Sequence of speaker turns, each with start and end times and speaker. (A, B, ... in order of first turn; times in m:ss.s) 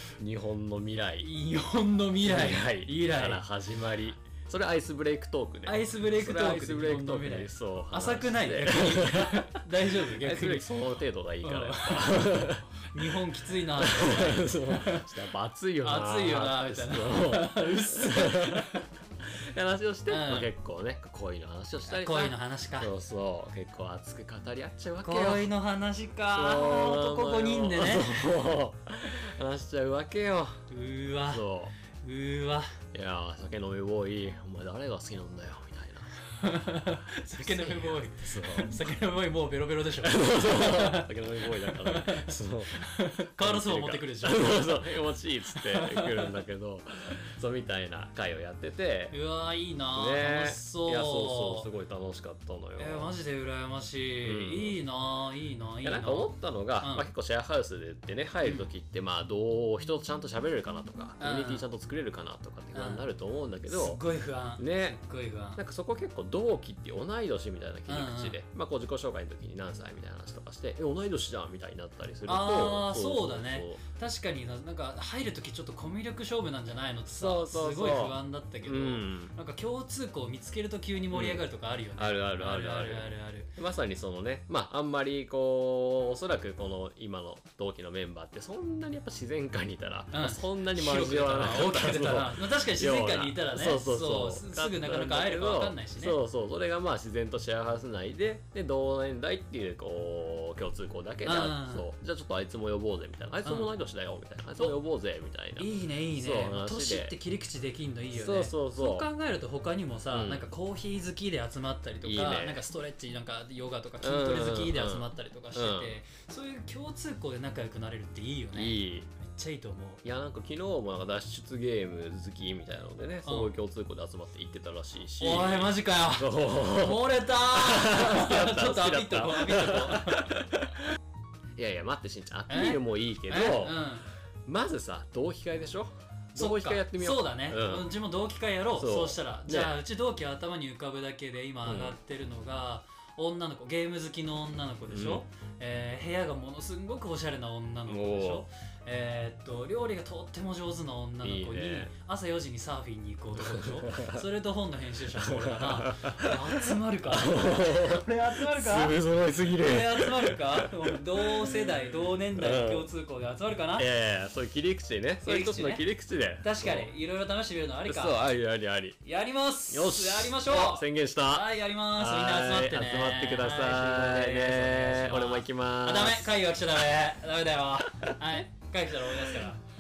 0:00.2-0:01.3 A
0:01.2-0:03.4 B
0:02.2-0:13.2 A
0:05.7-0:10.8 B
0:11.4-0:15.2 B
0:13.8-0:18.8 A
0:15.8-0:18.8 B
0:19.5-0:25.5 A
0:20.1-0:20.5 B
0:21.9-0:22.9 B
0:25.0-0:28.3 B
0:26.3-0:30.6 A
0:30.7-0:32.7 B
0:31.2-0:31.7 A
0:32.9-0:36.1 A
0:36.3-0:45.0 B
0:37.4-0:38.8 A
0:40.0-0:49.2 A
0:45.5-0:46.3 B
0:49.1-0:51.7 B
0:49.9-0:53.1 A
0:52.8-0:57.1 B
0:54.2-0:54.8 A
0:55.8-1:04.0 A
0:58.4-0:58.7 B
1:01.2-1:01.6 B
1:02.7-1:03.1 B
1:03.7-1:05.6 B
1:04.6-1:05.0 A
1:05.6-1:13.8 A
1:07.9-1:08.4 B
1:12.3-1:23.5 B
1:17.1-1:19.3 A
1:21.1-1:21.4 A
1:22.0-1:47.2 A
1:30.1-1:36.2 B
1:41.2-1:41.9 B
1:43.4-1:43.7 B
1:45.6-2:00.0 B
1:48.1-1:49.1 A
1:50.1-1:50.5 A
1:52.0-1:52.6 A
1:54.0-1:56.0 A
1:58.6-1:59.1 A
2:00.0-2:10.8 A
2:03.2-2:03.5 B
2:05.2-2:10.3 B
2:11.6-2:13.8 A
2:12.5-2:14.1 B
2:14.5-2:17.9 A
2:16.4-2:39.0 B
2:18.8-2:19.8 A
2:21.6-2:22.0 A
2:24.9-2:25.2 A
2:27.9-2:28.5 A
2:31.2-2:31.9 A
2:33.4-2:34.2 A
2:35.2-2:41.6 A
2:39.5-2:43.9 B
2:42.4-2:42.9 A
2:43.8-2:46.9 A
2:45.2-2:45.9 B
2:46.4-2:48.2 B
2:47.8-2:49.0 A
2:49.0-2:59.6 B
2:49.7-2:56.4 A